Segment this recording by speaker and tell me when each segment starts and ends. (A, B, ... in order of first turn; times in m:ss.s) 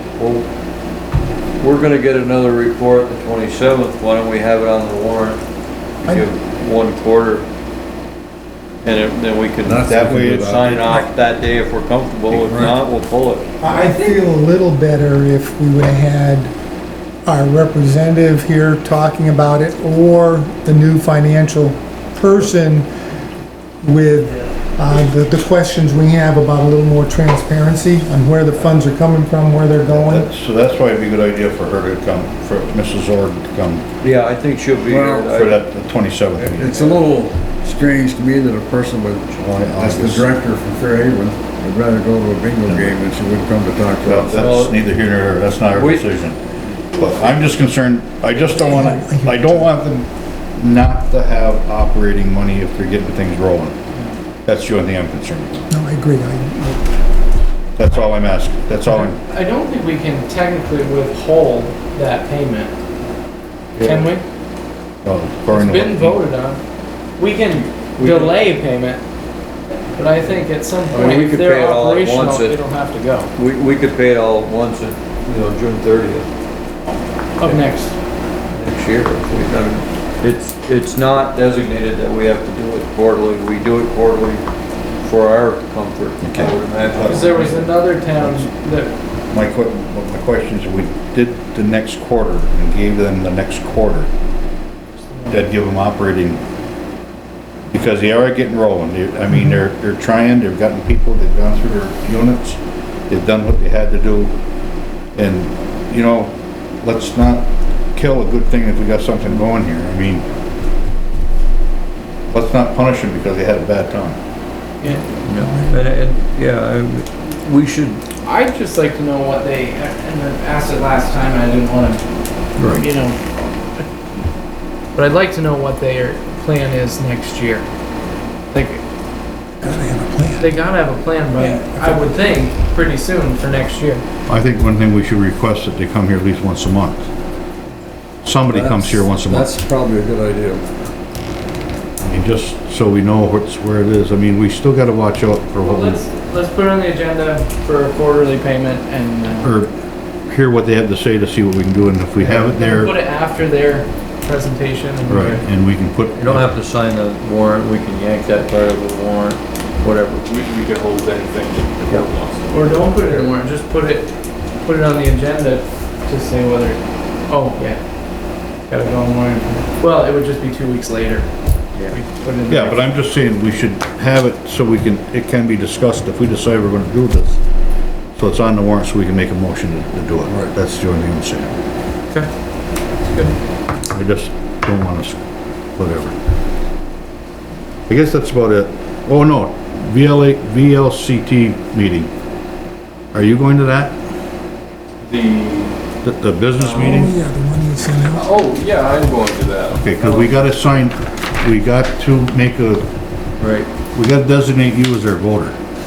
0:00.2-0:00.4 A
0:01.6-0:05.4 A
0:06.0-0:07.5 A
0:08.8-0:13.5 A
0:09.6-0:10.6 B
0:09.8-0:10.9 C
0:12.3-0:12.7 C
0:13.6-0:16.5 D
0:13.7-0:14.2 E
0:17.2-0:22.9 D
0:23.8-0:30.3 D
0:29.9-0:33.8 C
0:34.0-0:35.6 A
0:34.9-0:35.3 B
0:35.3-0:36.9 C
0:36.4-0:44.6 B
0:39.5-0:40.3 C
0:42.6-0:43.0 C
0:44.0-0:46.4 C
0:44.3-0:44.8 A
0:45.7-0:46.1 A
0:46.9-0:53.7 C
0:48.5-0:49.6 D
0:54.4-0:55.7 C
0:55.7-0:56.8 D
0:57.8-0:59.2 C
0:59.0-1:02.7 E
1:03.7-1:04.1 A
1:03.8-1:04.2 E
1:05.0-1:06.2 C
1:05.5-1:06.6 E
1:07.2-1:09.0 E
1:07.8-1:08.4 A
1:09.9-1:13.3 E
1:10.9-1:12.6 A
1:13.3-1:16.3 A
1:17.4-1:18.0 E
1:18.5-1:24.4 A
1:25.0-1:27.6 A
1:26.2-1:27.8 C
1:27.0-1:28.9 E
1:29.3-1:34.1 C
1:35.3-1:36.4 C
1:37.7-1:42.6 C
1:43.1-1:44.3 C
1:45.1-1:50.2 C
1:52.3-1:54.2 C
1:54.8-1:55.8 D
1:55.2-1:58.1 A
1:58.2-2:02.0 E
2:02.7-2:03.2 E
2:04.9-2:07.7 E
2:08.5-2:08.8 E
2:09.6-2:10.5 D
2:10.4-2:14.0 E
2:11.4-2:12.3 D
2:14.3-2:17.1 C
2:18.2-2:19.5 C
2:18.5-2:20.6 A
2:22.0-2:26.0 C
2:25.6-2:29.5 E
2:29.4-2:29.7 C
2:30.2-2:32.9 C
2:32.4-2:35.4 E
2:35.0-2:36.5 C
2:36.1-2:40.2 A
2:40.2-2:43.4 F
2:42.5-2:44.1 E
2:44.6-2:47.8 E
2:48.7-2:51.3 E
2:51.9-2:52.9 E
2:52.5-2:57.4 C
2:58.1-3:01.5 C
3:03.0-3:03.4 E
3:03.9-3:05.2 C
3:05.7-3:06.2 C
3:07.9-3:12.1 C
3:13.1-3:14.0 C
3:15.0-3:15.8 F
3:16.0-3:17.1 C
3:16.7-3:18.3 D
3:18.1-3:19.9 F
3:19.7-3:22.9 C
3:20.0-3:20.4 A
3:23.4-3:23.7 A
3:23.9-3:25.6 C